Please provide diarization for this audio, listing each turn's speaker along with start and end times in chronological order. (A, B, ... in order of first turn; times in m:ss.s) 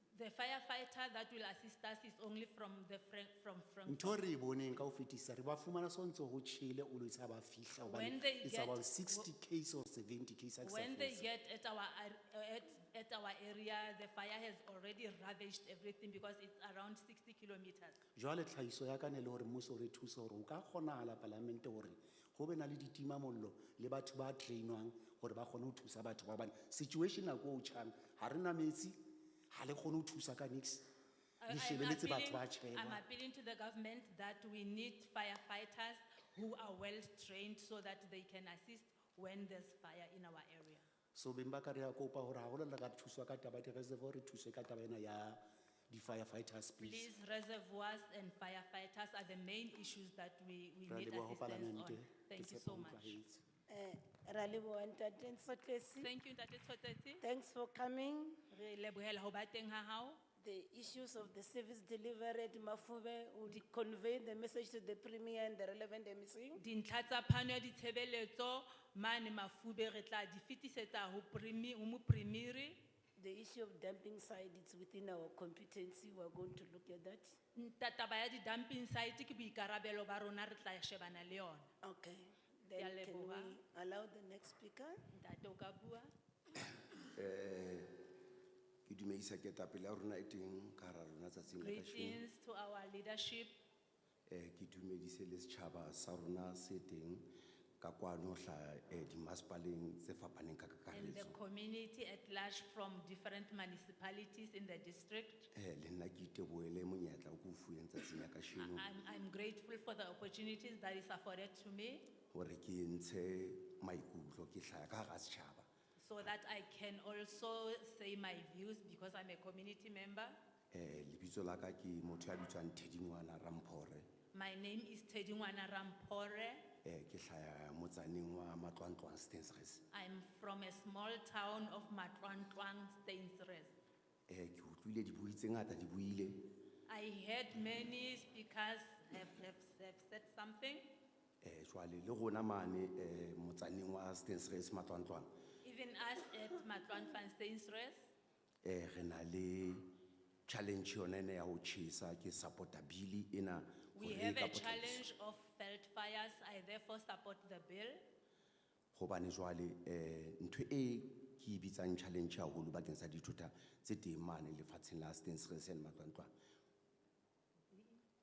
0:00.1-0:04.3 A
0:03.8-0:11.3 B
0:07.8-0:09.3 A
0:10.6-0:18.0 A
0:18.2-0:29.0 B
0:29.5-0:30.8 B
0:31.4-0:40.8 A
0:31.5-0:33.0 B
0:41.1-0:47.1 B
0:46.8-0:53.2 A
0:50.9-0:53.4 B
0:53.7-0:56.1 C
0:56.0-0:57.2 A
0:57.2-0:58.5 C
0:58.5-1:00.2 A
1:00.4-1:06.6 C
1:06.6-1:12.8 A
1:13.2-1:17.4 C
1:17.5-1:21.7 A
1:21.8-1:25.0 C
1:22.7-1:23.6 A
1:25.1-1:26.1 A
1:27.0-1:27.9 D
1:28.8-1:32.2 D
1:31.6-1:33.6 A
1:34.3-1:37.3 D
1:37.8-1:41.4 D
1:40.9-1:45.5 A
1:45.5-1:48.9 D
1:48.5-1:52.1 A
1:52.3-1:55.7 D
1:56.0-2:00.4 A
2:00.7-2:04.1 D
2:04.3-2:06.7 A
2:06.8-2:09.8 D
2:09.9-2:13.7 A
2:14.3-2:16.4 D
2:16.9-2:20.9 A
2:21.4-2:25.3 D
2:25.6-2:28.0 A
2:28.6-2:29.8 D
2:30.5-2:35.0 D
2:33.9-2:38.0 A
2:38.9-2:46.3 D